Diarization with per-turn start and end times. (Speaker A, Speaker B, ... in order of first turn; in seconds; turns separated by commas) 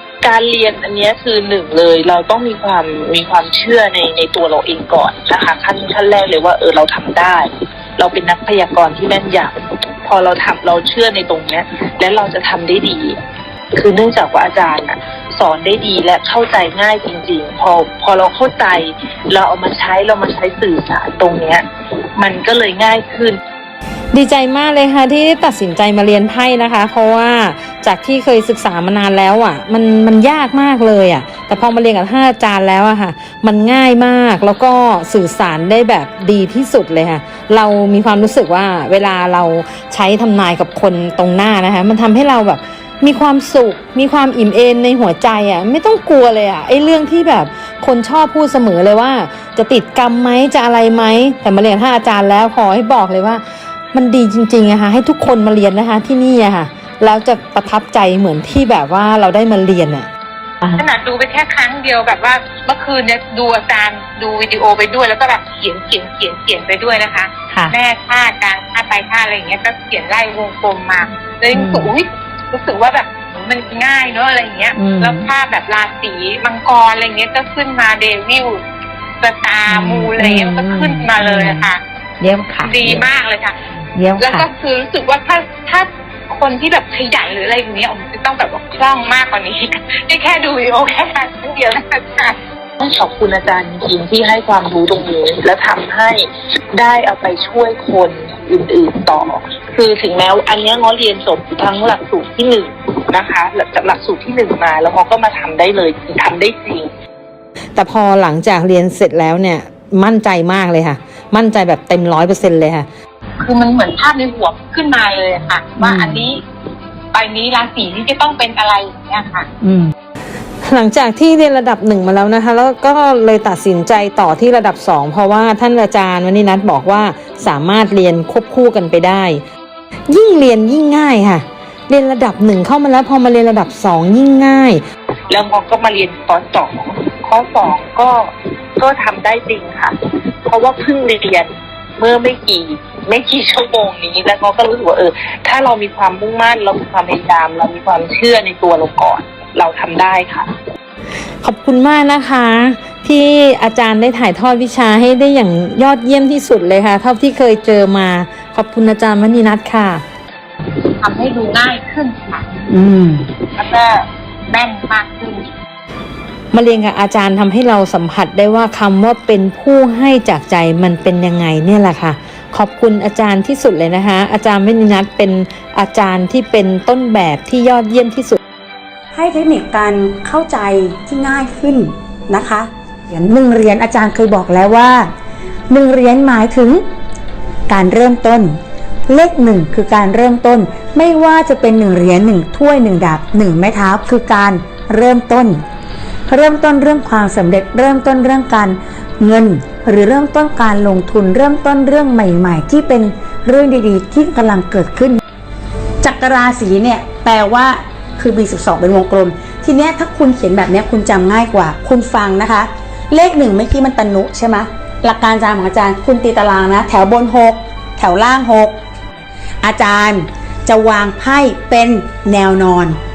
Speaker A: 0.2-9.5, Speaker A: 10.1-13.2, Speaker A: 13.8-23.4, Speaker B: 24.1-60.1, Speaker C: 60.8-78.6, Speaker D: 71.5-71.9, Speaker D: 74.8-75.3, Speaker C: 79.2-81.8, Speaker D: 79.7-81.7, Speaker D: 82.2-83.1, Speaker C: 82.6-83.6, Speaker D: 83.9-84.5, Speaker C: 84.2-92.4, Speaker A: 92.8-106.9, Speaker B: 107.8-112.9, Speaker C: 113.4-116.4, Speaker D: 115.9-116.2, Speaker C: 117.1-119.5, Speaker D: 119.6-119.9, Speaker B: 120.6-129.4, Speaker B: 130.1-134.8, Speaker A: 135.3-150.5, Speaker B: 151.4-160.0, Speaker C: 161.0-162.7, Speaker D: 162.7-163.2, Speaker C: 163.5-165.5, Speaker B: 166.5-178.4, Speaker E: 179.1-185.1, Speaker E: 185.7-186.8, Speaker E: 187.7-195.6, Speaker E: 196.3-205.2, Speaker E: 206.0-218.8, Speaker E: 219.6-223.0